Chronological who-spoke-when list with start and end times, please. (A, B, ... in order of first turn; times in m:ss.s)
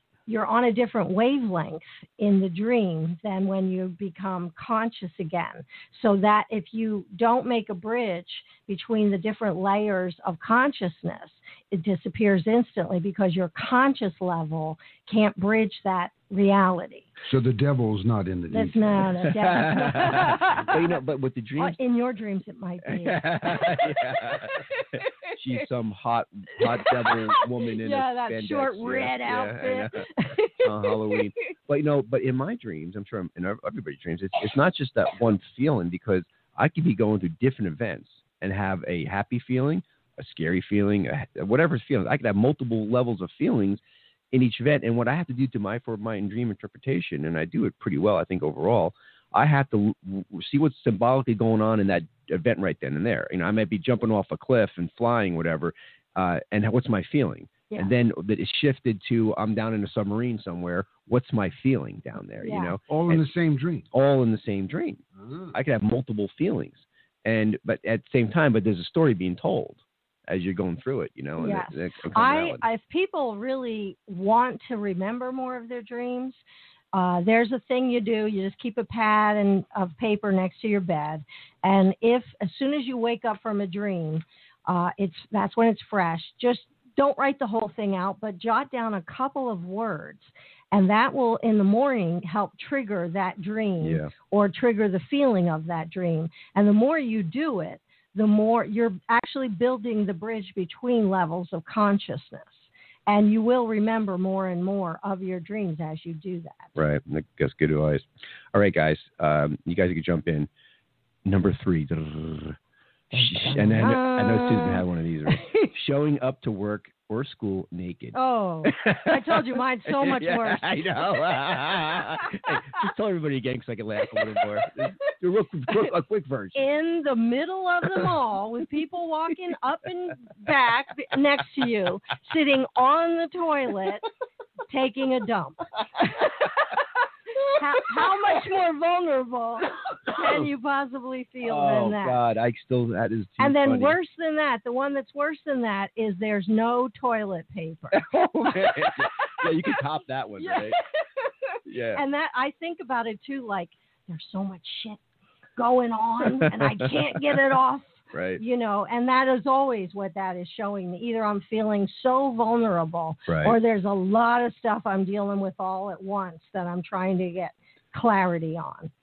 0:00.3-0:17.1 A
0:17.2-0:20.4 B
0:18.5-0:21.0 A
0:19.4-0:21.8 C
0:21.6-0:24.0 A
0:22.8-0:30.1 C
0:26.6-0:31.2 A
0:30.6-0:43.8 C
0:44.3-1:03.3 C
1:02.4-1:02.8 A
1:02.9-1:03.9 B
1:03.9-1:12.6 C
1:05.2-1:05.6 B
1:11.4-1:16.4 A
1:16.9-1:46.7 A
1:33.8-1:34.1 C
1:46.8-1:50.5 C
1:51.2-1:52.6 C
1:53.1-2:06.6 C
1:53.5-1:55.7 A
1:58.1-2:00.7 A
2:06.5-2:14.1 A
2:14.7-2:16.8 A
2:17.5-2:22.2 A
2:20.1-2:20.5 C
2:21.4-2:24.0 C
2:23.4-2:29.4 A
2:27.9-2:30.8 C
2:30.4-2:31.3 A
2:31.6-2:32.0 C
2:31.9-2:35.0 A
2:35.6-2:48.9 A
2:36.2-2:37.5 C
2:38.1-2:38.4 C
2:43.3-2:43.6 C